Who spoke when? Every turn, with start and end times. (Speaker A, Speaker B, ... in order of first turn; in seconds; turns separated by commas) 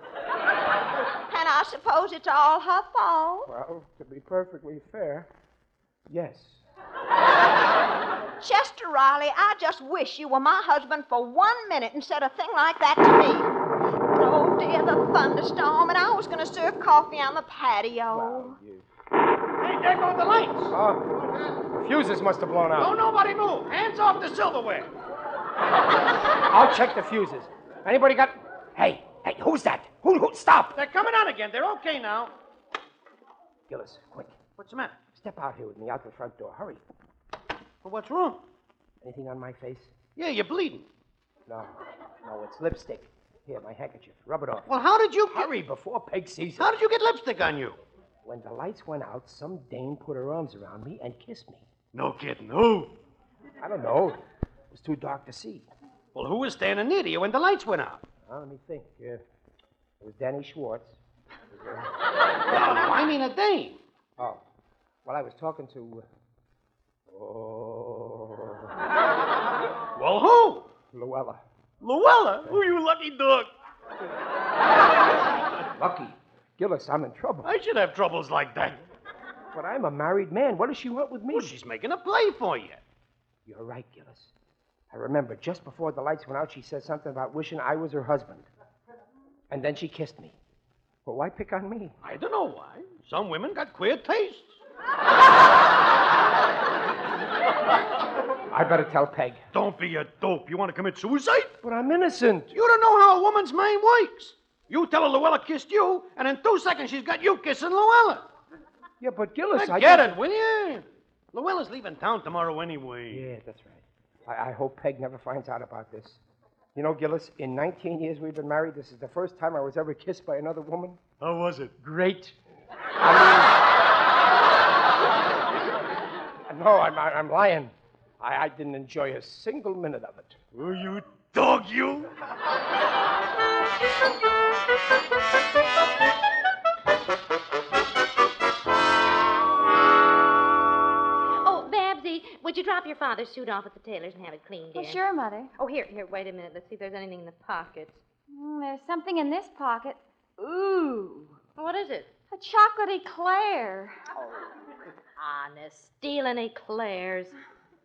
Speaker A: 1.3-3.5, Speaker B: 3.5-5.3, Speaker B: 6.1-6.6, Speaker A: 8.4-13.5, Speaker A: 14.1-18.6, Speaker B: 18.1-18.9, Speaker C: 19.6-20.7, Speaker B: 20.7-21.1, Speaker B: 21.7-22.9, Speaker C: 22.8-24.9, Speaker B: 26.5-30.7, Speaker C: 30.7-32.3, Speaker B: 33.7-34.4, Speaker C: 34.6-35.0, Speaker B: 35.1-36.8, Speaker C: 37.8-38.4, Speaker B: 39.0-39.9, Speaker C: 40.1-40.9, Speaker B: 41.5-44.7, Speaker C: 44.7-45.5, Speaker B: 45.3-46.7, Speaker C: 46.6-47.8, Speaker B: 48.2-51.7, Speaker C: 51.9-52.9, Speaker B: 53.6-54.2, Speaker B: 54.7-55.7, Speaker C: 56.1-58.0, Speaker B: 58.2-59.2, Speaker B: 60.0-61.0, Speaker B: 61.5-61.9, Speaker C: 62.5-63.8, Speaker B: 65.0-66.0, Speaker B: 67.1-68.8, Speaker C: 69.9-70.7, Speaker B: 70.9-71.4, Speaker C: 71.8-73.5, Speaker B: 75.8-77.5, Speaker C: 77.4-78.8, Speaker B: 79.5-81.5, Speaker C: 81.3-82.8, Speaker B: 83.5-84.3, Speaker B: 84.9-88.5, Speaker B: 89.5-90.3, Speaker B: 91.0-91.9, Speaker C: 92.0-94.5, Speaker B: 98.5-99.4, Speaker C: 99.5-101.5, Speaker B: 101.6-102.5, Speaker C: 102.5-108.2, Speaker B: 109.0-110.2, Speaker C: 109.5-113.3, Speaker B: 113.1-116.2, Speaker B: 116.7-121.0, Speaker C: 121.2-121.7, Speaker B: 121.8-122.3, Speaker B: 123.0-123.5, Speaker B: 126.5-130.4, Speaker C: 130.5-132.1, Speaker D: 141.4-145.0, Speaker E: 144.7-145.5, Speaker D: 145.6-148.0, Speaker E: 148.3-151.4, Speaker D: 151.6-152.1, Speaker E: 152.3-154.0, Speaker D: 155.2-157.3